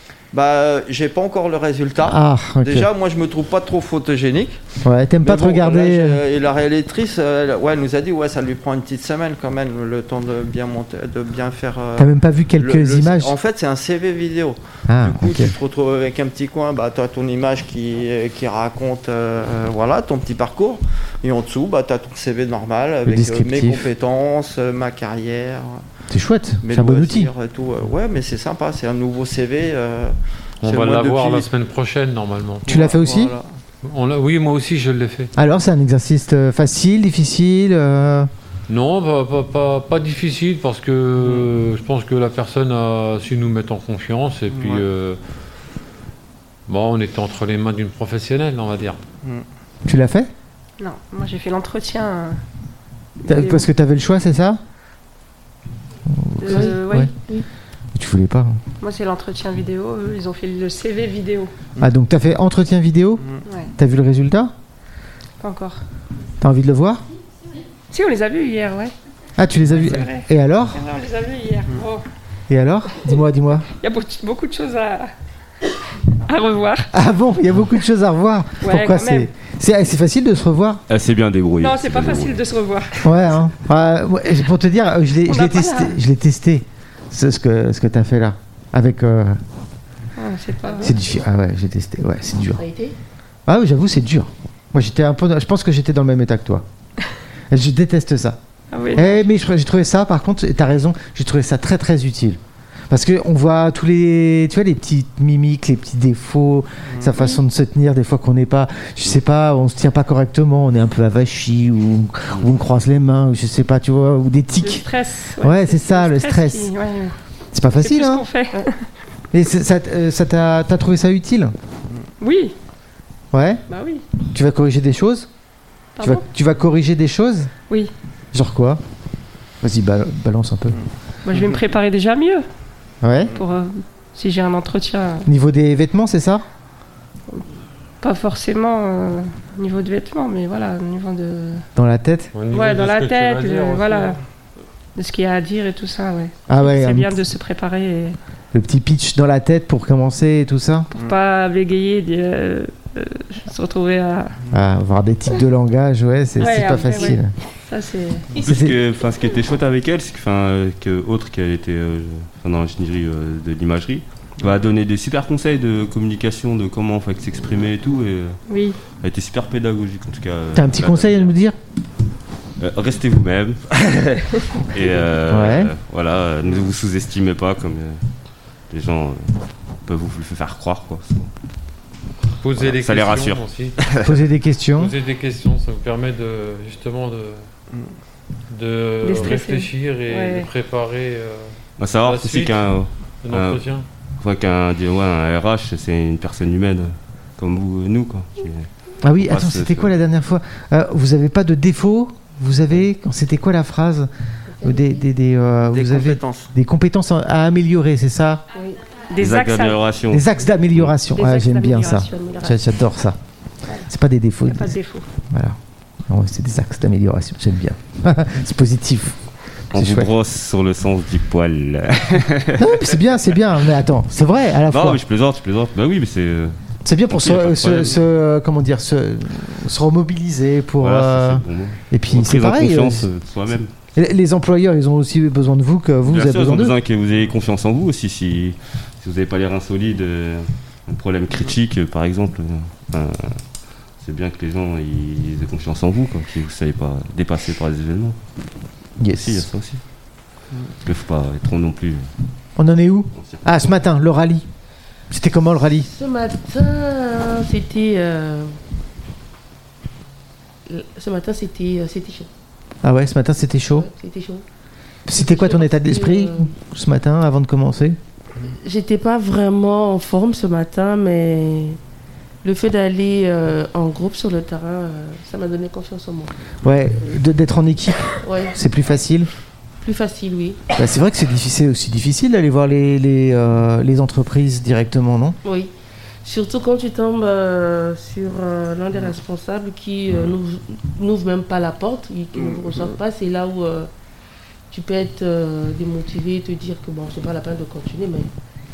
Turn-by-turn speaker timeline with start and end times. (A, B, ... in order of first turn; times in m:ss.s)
0:00.3-0:04.6 A
0:02.0-0:02.9 B
0:04.8-0:06.2 B
0:05.2-0:25.8 A
0:12.0-0:13.4 B
0:14.9-0:15.5 B
0:23.0-0:23.9 B
0:26.1-0:27.3 B
0:26.6-0:31.5 A
0:30.6-0:32.7 C
0:32.6-0:33.3 B
0:32.6-0:33.5 A
0:33.8-0:35.3 C
0:35.4-0:38.3 B
0:38.7-0:45.2 C
0:41.2-0:41.5 A
0:44.5-0:44.8 A
0:46.7-0:49.0 C
0:49.9-0:50.3 B
0:50.8-0:52.4 D
0:53.2-0:53.7 D
0:53.3-0:54.6 B
0:56.1-0:57.1 B
0:56.4-0:57.1 D
0:56.5-0:57.5 E
0:58.0-0:58.6 B
0:58.8-1:01.5 D
1:01.8-1:04.5 B
1:03.4-1:03.7 D
1:05.4-1:05.8 D
1:06.4-1:07.0 B
1:07.9-1:08.9 D
1:09.4-1:10.8 B
1:09.8-1:12.0 D
1:12.5-1:13.7 B
1:13.8-1:15.1 D
1:16.1-1:16.9 D
1:16.9-1:20.8 B
1:18.6-1:19.3 D
1:20.9-1:22.5 F
1:21.6-1:23.1 D
1:23.0-1:29.4 B
1:25.3-1:26.0 D
1:30.2-1:31.0 D
1:30.8-1:32.6 B
1:32.6-1:33.0 E
1:33.5-1:36.6 B
1:37.5-1:38.4 B
1:38.7-1:39.3 D
1:38.9-1:54.9 B
1:46.9-1:47.2 A
1:54.6-1:57.2 D
1:55.4-1:56.7 B
1:57.5-1:58.3 B
1:57.8-1:58.9 D
1:59.3-2:01.5 B
2:02.2-2:02.6 D
2:03.3-2:03.6 B
2:03.7-2:04.0 D
2:04.3-2:05.3 B
2:06.0-2:06.2 D
2:06.0-2:07.5 B
2:08.3-2:08.8 B
2:09.6-2:10.8 B
2:10.8-2:11.6 A
2:11.3-2:12.5 D
2:13.0-2:13.4 B
2:13.4-2:15.3 D
2:15.3-2:16.4 B
2:18.0-2:21.7 D
2:21.8-2:22.3 B
2:22.3-2:24.2 C
2:22.5-2:24.2 D
2:25.0-2:28.2 D
2:26.5-2:27.2 B
2:28.5-2:30.9 B
2:30.9-2:34.4 D
2:34.5-2:37.3 B
2:36.4-2:38.4 D
2:38.3-2:51.3 F
2:38.4-2:38.8 B
2:48.5-2:48.8 D
2:50.6-2:51.6 B
2:52.6-2:58.0 F
2:55.3-2:55.7 B
2:58.7-2:59.3 F
2:59.8-3:01.3 F
3:02.4-3:03.8 C
3:02.6-3:04.2 F
3:04.0-3:04.9 B
3:04.8-3:07.4 C
3:08.5-3:12.6 C
3:09.0-3:10.5 D
3:11.8-3:13.6 F
3:13.2-3:13.9 C
3:14.2-3:18.7 F
3:19.0-3:24.1 B
3:19.2-3:19.9 F
3:24.5-3:25.0 E
3:24.6-3:28.4 B
3:25.7-3:26.5 A
3:29.0-3:29.8 D
3:29.2-3:31.0 F
3:30.1-3:33.2 B
3:31.1-3:32.5 D
3:33.9-3:35.6 B
3:34.5-3:35.1 D
3:36.1-3:39.2 B
3:39.7-3:43.0 F
3:39.7-3:40.1 B
3:42.6-3:45.0 B
3:44.7-3:46.6 F
3:46.8-3:53.1 B
3:47.1-3:48.0 F
3:50.8-3:53.7 F
3:54.0-3:56.7 B
3:56.1-4:03.4 F
4:04.0-4:08.2 F
4:09.0-4:09.5 B
4:09.1-4:09.8 F
4:10.8-4:12.1 F
4:12.6-4:14.4 B
4:15.1-4:15.9 B
4:15.9-4:18.6 E
4:20.7-4:22.3 E
4:22.8-4:23.9 B
4:23.7-4:24.4 E
4:25.1-4:28.0 B
4:25.1-4:26.5 E
4:28.4-4:31.8 E
4:32.4-4:36.3 E
4:36.6-4:39.3 B
4:38.2-4:38.6 E
4:39.8-4:40.6 E
4:40.7-4:45.4 B
4:45.4-4:45.7 E
4:46.2-4:53.9 E
4:52.4-4:53.0 A
4:54.7-4:58.3 E